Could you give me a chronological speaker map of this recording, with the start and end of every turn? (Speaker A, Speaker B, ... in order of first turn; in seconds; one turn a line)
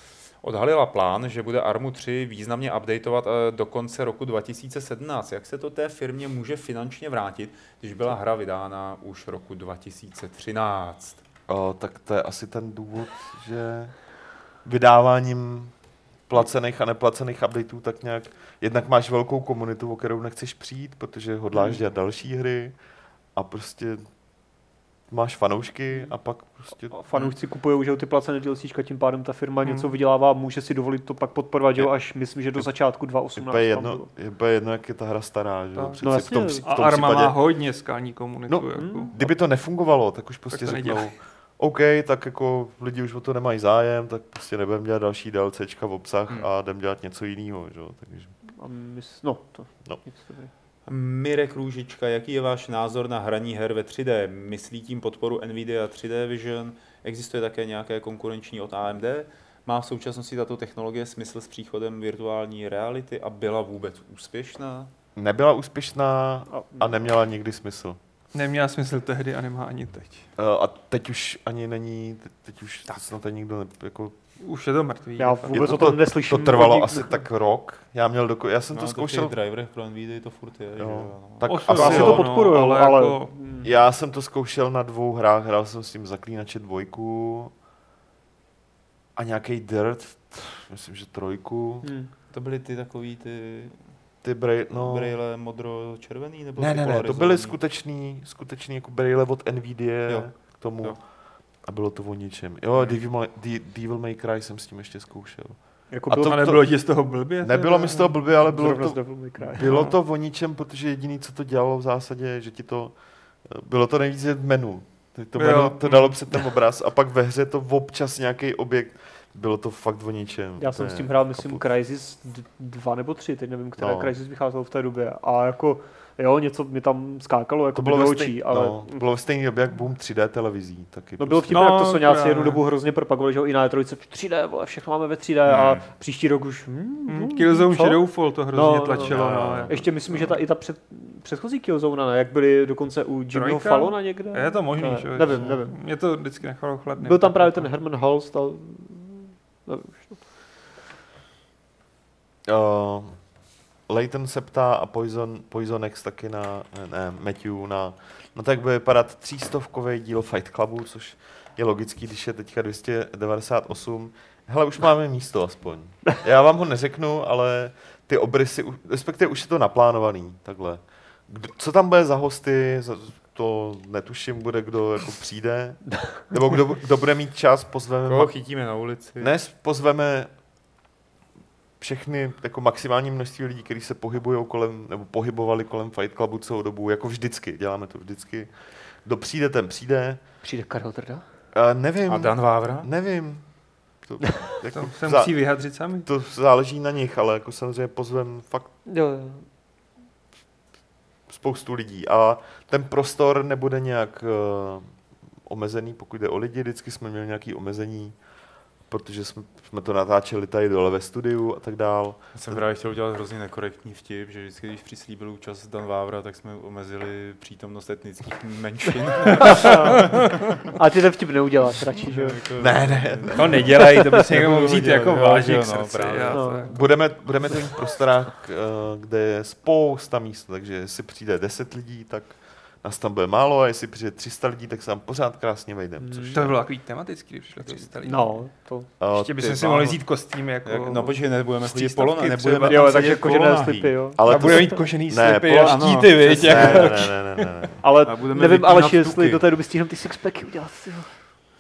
Speaker A: 0.4-11.2
Speaker B: 11.5-27.0
Speaker C: 26.7-34.1
Speaker A: 27.1-27.4
Speaker D: 29.6-29.9
Speaker B: 31.8-37.4
Speaker D: 35.8-39.1
Speaker C: 36.0-36.7
Speaker B: 38.5-48.4
Speaker C: 38.8-39.3
Speaker D: 40.5-41.2
Speaker C: 48.5-50.5
Speaker A: 50.9-64.9
Speaker B: 65.2-68.0
Speaker C: 66.5-67.0
Speaker D: 68.3-70.3
Speaker B: 70.4-74.2
Speaker D: 74.4-76.0
Speaker C: 75.2-77.2
Speaker B: 75.5-79.3
Speaker A: 78.7-82.2
Speaker B: 80.8-82.3
Speaker D: 81.5-83.3
Speaker C: 81.6-83.7
Speaker B: 83.6-87.5
Speaker B: 89.2-91.9
Speaker C: 91.8-92.1
Speaker A: 92.3-94.0
Speaker B: 94.2-95.2
Speaker A: 94.7-97.6
Speaker B: 96.6-121.7
Speaker A: 100.1-101.0
Speaker A: 102.7-103.0
Speaker C: 105.9-106.5
Speaker D: 106.2-108.1
Speaker C: 107.8-109.8
Speaker D: 109.6-110.0
Speaker D: 115.3-116.4
Speaker C: 120.6-129.2
Speaker B: 123.8-124.1
Speaker B: 127.7-131.7
Speaker C: 131.2-146.3
Speaker D: 131.5-132.6
Speaker A: 135.4-135.9
Speaker D: 137.1-139.7
Speaker B: 139.0-140.4
Speaker D: 143.3-147.7
Speaker B: 145.3-145.6
Speaker C: 146.9-150.4
Speaker B: 152.5-180.4
Speaker A: 178.1-179.4
Speaker B: 181.8-190.4
Speaker C: 190.4-191.3
Speaker B: 191.5-198.7
Speaker A: 192.1-192.9
Speaker D: 194.7-196.1
Speaker C: 198.8-199.5
Speaker B: 201.3-212.7
Speaker A: 212.3-220.1
Speaker C: 219.5-220.0
Speaker C: 220.7-222.6
Speaker A: 222.0-227.1
Speaker B: 222.6-223.8
Speaker D: 223.3-226.9
Speaker C: 223.9-224.3
Speaker C: 226.3-226.8
Speaker B: 226.7-236.6
Speaker C: 236.0-236.5
Speaker D: 236.3-243.3
Speaker A: 237.6-238.0
Speaker C: 238.1-239.0
Speaker B: 239.0-240.0
Speaker A: 240.6-244.1
Speaker C: 242.6-244.7
Speaker B: 244.2-247.8
Speaker D: 244.2-247.7
Speaker A: 245.6-246.9
Speaker C: 246.2-247.1
Speaker C: 247.8-251.4
Speaker A: 248.0-249.5